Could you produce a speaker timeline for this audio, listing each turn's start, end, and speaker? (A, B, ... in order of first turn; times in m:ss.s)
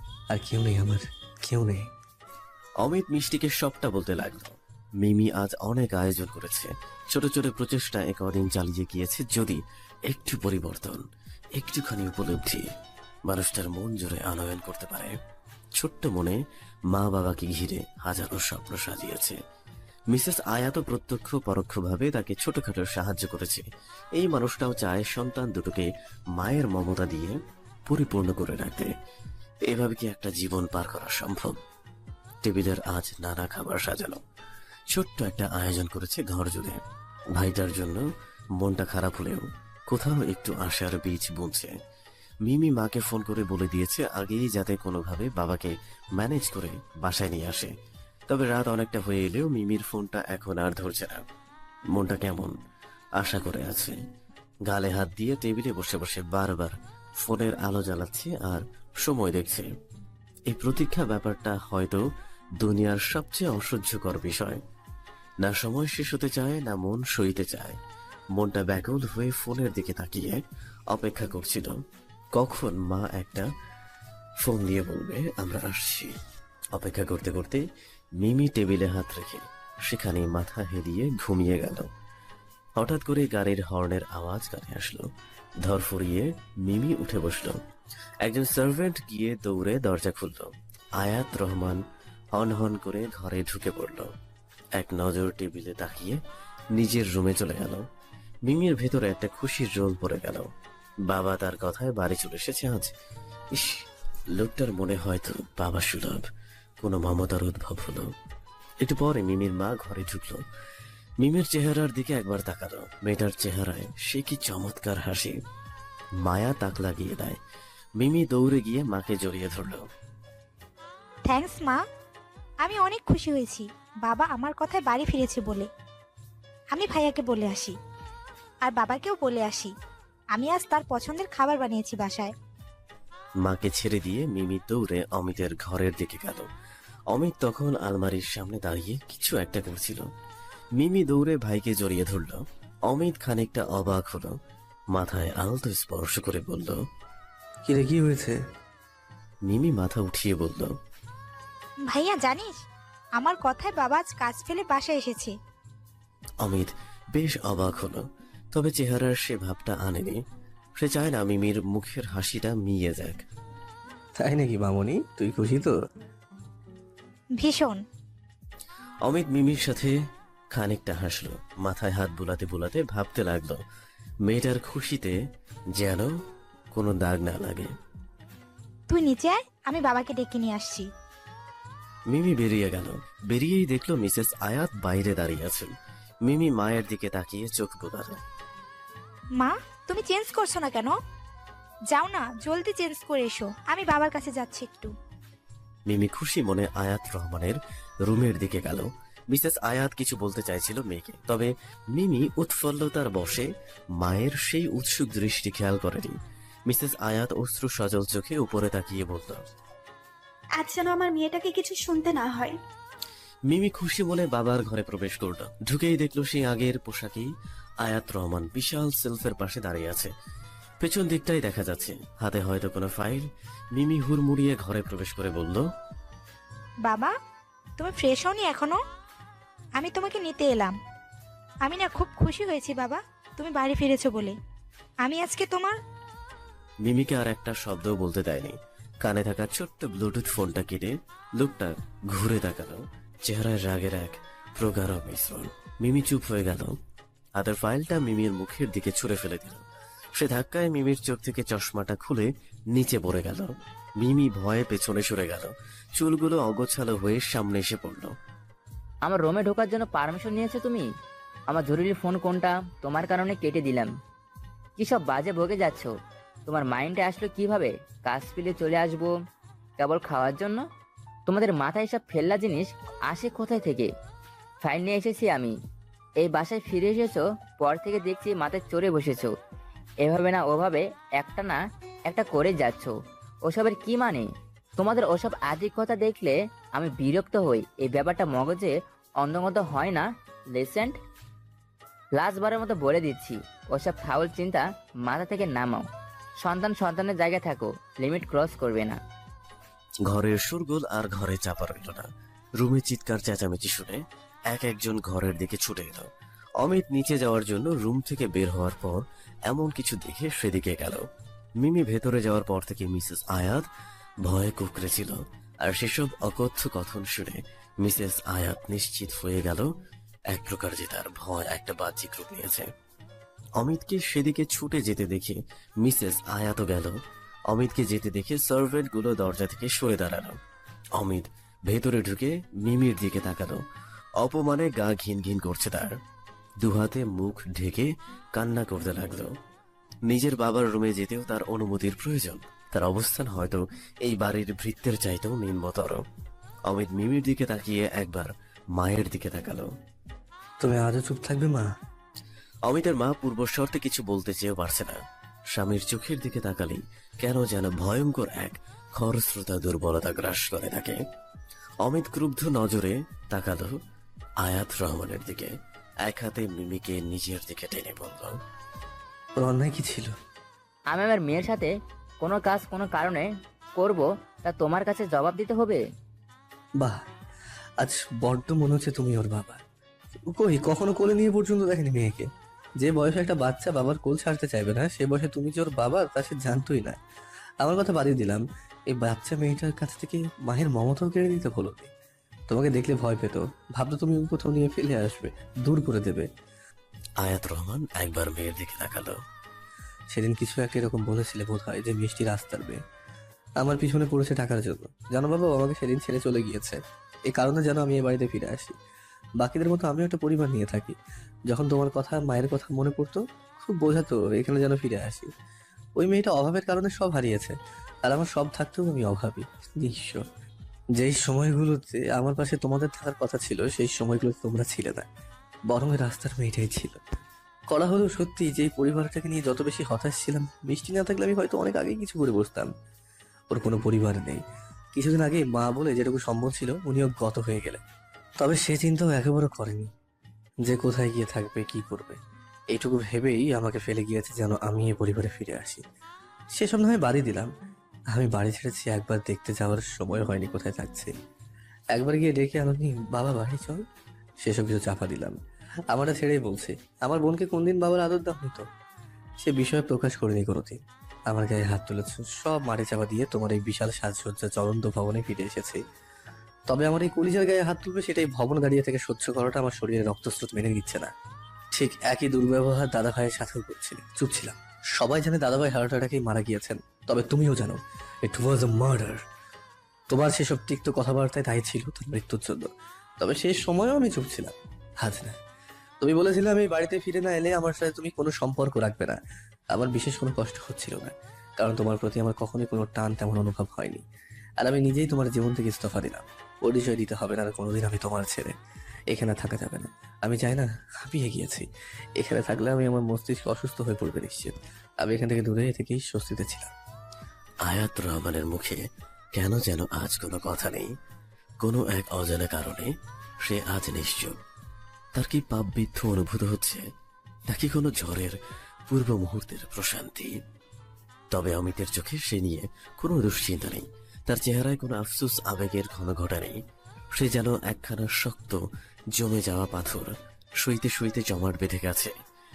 0:00.3-0:01.9 A
0:02.8-0:11.0 B
0:11.6-0:12.6 B
0:13.3-0:15.2 B
0:15.8-0:16.4 B
0:16.9-0:19.4 B
0:20.1-0:23.6 B
0:24.2-0:27.4 B
0:27.9-0:28.9 B
0:29.7-0:31.6 B
0:32.4-0:34.2 B
0:34.9-0:36.8 B
0:37.4-0:38.0 B
0:38.6-0:41.7 B
0:42.5-0:47.7 B
0:48.3-0:51.2 B
0:51.9-0:52.5 B
0:53.2-0:54.0 B
0:54.7-0:59.7 B
1:00.5-1:02.0 B
1:02.6-1:04.6 B
1:05.4-1:07.8 B
1:08.4-1:10.4 B
1:10.9-1:11.8 B
1:12.4-1:13.5 B
1:14.4-1:16.1 B
1:16.8-1:17.6 B
1:18.2-1:21.9 B
1:22.8-1:25.1 B
1:25.6-1:27.6 B
1:28.2-1:31.8 B
1:32.3-1:34.1 B
1:34.8-1:36.2 B
1:36.7-1:37.8 B
1:38.5-1:40.5 B
1:41.1-1:42.9 B
1:43.5-1:43.8 B
1:44.4-1:46.2 B
1:46.8-1:48.1 B
1:48.8-1:50.4 B
1:51.2-1:55.4 B
1:56.2-1:57.4 B
1:58.0-1:59.8 B
2:01.3-2:01.8 C
2:02.6-2:05.7 C
2:06.7-2:07.8 C
2:08.6-2:09.7 C
2:10.3-2:12.3 C
2:13.4-2:16.4 B
2:17.1-2:20.0 B
2:20.8-2:24.4 B
2:24.9-2:26.8 B
2:27.6-2:28.4 A
2:29.5-2:30.7 B
2:31.9-2:32.6 C
2:33.2-2:35.3 C
2:36.4-2:40.2 B
2:40.8-2:43.2 B
2:44.2-2:45.7 A
2:47.4-2:47.8 C
2:49.0-2:50.0 B
2:50.5-2:53.6 B
2:54.3-2:55.2 B
2:55.8-2:56.1 B
2:56.7-2:57.7 B
2:58.9-3:00.9 C
3:02.1-3:05.7 B
3:06.3-3:08.2 B
3:09.4-3:10.9 C
3:11.9-3:14.9 C
3:15.9-3:23.5 B
3:24.0-3:26.1 B
3:26.7-3:29.4 B
3:30.6-3:32.6 D
3:33.5-3:37.3 B
3:37.8-3:40.1 B
3:40.8-3:45.6 B
3:46.8-3:47.1 C
3:47.8-3:48.8 C
3:49.8-3:50.8 C
3:51.6-3:54.4 C
3:55.0-3:55.8 C
3:56.8-4:06.8 B
4:07.4-4:18.1 B
4:19.0-4:20.9 E
4:21.5-4:23.9 E
4:24.8-4:25.9 E
4:26.5-4:29.1 E
4:29.8-4:30.6 E
4:31.3-4:33.9 E
4:34.6-4:35.6 E
4:36.2-4:39.3 E
4:40.0-4:42.9 E
4:43.5-4:51.0 E
4:52.2-4:55.9 E
4:56.4-4:59.0 E
5:00.1-5:02.1 B
5:02.6-5:06.1 B
5:06.6-5:11.0 B
5:11.6-5:13.6 B
5:14.2-5:19.7 B
5:20.3-5:22.7 B
5:23.6-5:27.0 B
5:27.5-5:30.4 B
5:31.0-5:33.6 B
5:34.2-5:36.0 B
5:36.6-5:39.3 B
5:40.1-5:46.0 B
5:46.7-5:49.7 B
5:50.6-5:51.7 A
5:52.7-5:55.0 B
5:55.5-6:01.0 B
6:01.8-6:03.8 B
6:04.4-6:05.5 B
6:06.0-6:08.4 B
6:09.4-6:10.1 A
6:10.9-6:15.8 E
6:17.8-6:19.6 A
6:20.3-6:22.3 A
6:22.8-6:27.0 A
6:27.6-6:31.9 A
6:32.5-6:36.3 A
6:37.2-6:39.2 B
6:40.1-6:42.8 A
6:43.6-6:46.8 A
6:47.3-6:48.8 A
6:49.4-6:51.0 A
6:51.5-6:55.3 A
6:56.0-7:00.2 A
7:01.0-7:05.1 A
7:05.7-7:07.0 A
7:07.7-7:12.7 A
7:13.5-7:14.4 A
7:15.0-7:17.8 A
7:18.4-7:19.9 A
7:20.6-7:22.2 A
7:22.7-7:25.8 A
7:26.5-7:27.5 A
7:28.1-7:31.1 A
7:31.9-7:33.8 A
7:34.4-7:35.4 A
7:35.9-7:38.6 A
7:39.4-7:45.8 A
7:46.7-7:51.1 A
7:51.7-7:59.2 A
8:00.1-8:05.4 A
8:06.0-8:09.2 A
8:09.7-8:14.0 A
8:14.6-8:18.6 A
8:19.1-8:21.7 A
8:22.2-8:26.7 A
8:27.6-8:28.8 B
8:29.4-8:30.9 B
8:31.6-8:32.9 B
8:33.4-8:34.4 B
8:35.2-8:36.8 B
8:37.5-8:38.4 B
8:38.9-8:40.3 B
8:41.3-8:46.6 B
8:47.2-8:48.6 B
8:49.2-8:52.1 B